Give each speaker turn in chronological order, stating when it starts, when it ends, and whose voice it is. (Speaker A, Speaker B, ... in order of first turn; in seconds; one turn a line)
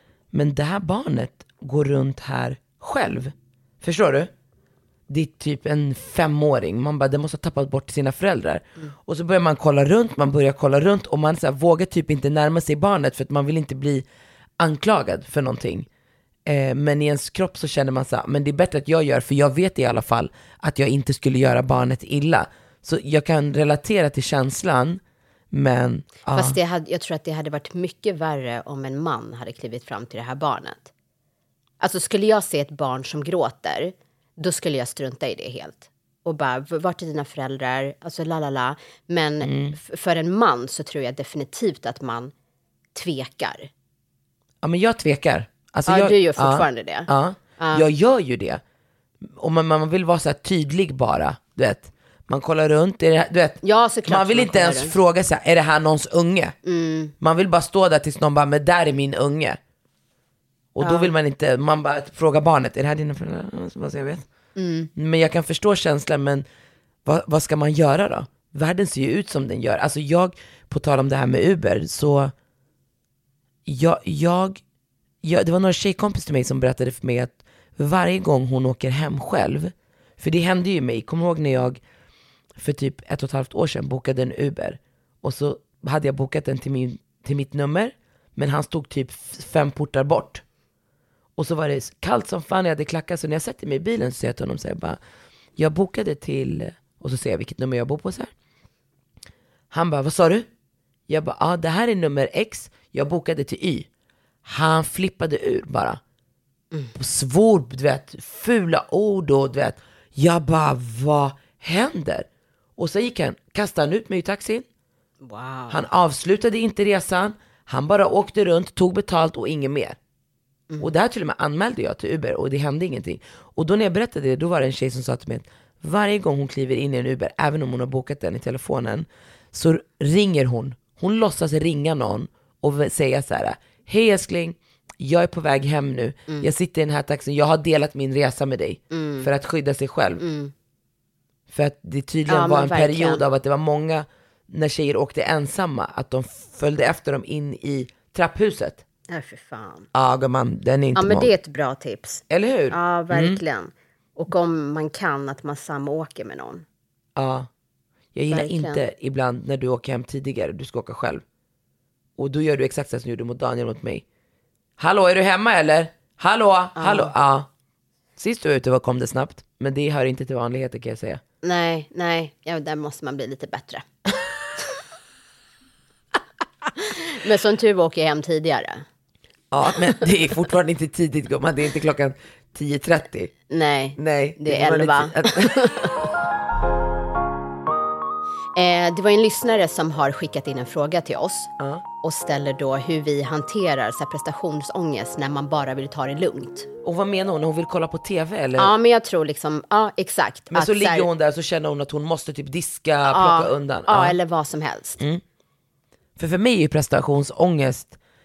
Speaker A: 0.3-4.3
Speaker A: 5.1-14.1
Speaker A: 14.6-15.9
Speaker A: 16.5-25.0
Speaker A: 25.5-26.6
Speaker B: 26.3-30.9
Speaker B: 31.8-42.3
Speaker A: 39.4-39.8
Speaker B: 43.0-43.7
Speaker A: 44.6-48.6
Speaker B: 45.9-47.9
Speaker A: 49.4-56.6
Speaker B: 53.6-55.0
Speaker B: 56.6-57.1
Speaker A: 57.2-59.6
Speaker A: 60.8-64.3
Speaker B: 60.8-61.1
Speaker B: 64.6-64.9
Speaker A: 65.0-66.5
Speaker A: 67.0-72.3
Speaker A: 73.7-74.6
Speaker A: 75.2-81.8
Speaker A: 82.6-90.4
Speaker A: 91.4-95.0
Speaker A: 95.6-98.3
Speaker A: 99.7-100.5
Speaker A: 101.1-103.9
Speaker A: 104.5-106.0
Speaker A: 107.0-112.3
Speaker A: 112.8-114.7
Speaker B: 115.2-115.8
Speaker A: 115.7-120.0
Speaker A: 120.8-140.2
Speaker B: 138.9-139.3
Speaker B: 140.2-140.5
Speaker A: 141.5-148.8
Speaker B: 142.3-143.2
Speaker B: 149.1-149.9
Speaker A: 149.9-151.3
Speaker B: 151.0-156.6
Speaker A: 152.3-153.4
Speaker A: 157.2-157.5
Speaker A: 158.2-161.2
Speaker B: 158.3-158.9
Speaker A: 162.2-164.0
Speaker A: 164.8-167.5
Speaker B: 166.8-167.1
Speaker A: 168.2-171.2
Speaker B: 171.4-173.9
Speaker B: 176.8-178.8
Speaker A: 179.5-183.3
Speaker B: 183.5-186.0
Speaker A: 184.0-185.9
Speaker B: 188.6-196.7
Speaker A: 196.8-198.7
Speaker B: 198.6-201.1
Speaker A: 200.5-204.2
Speaker B: 203.1-205.0
Speaker A: 206.2-208.0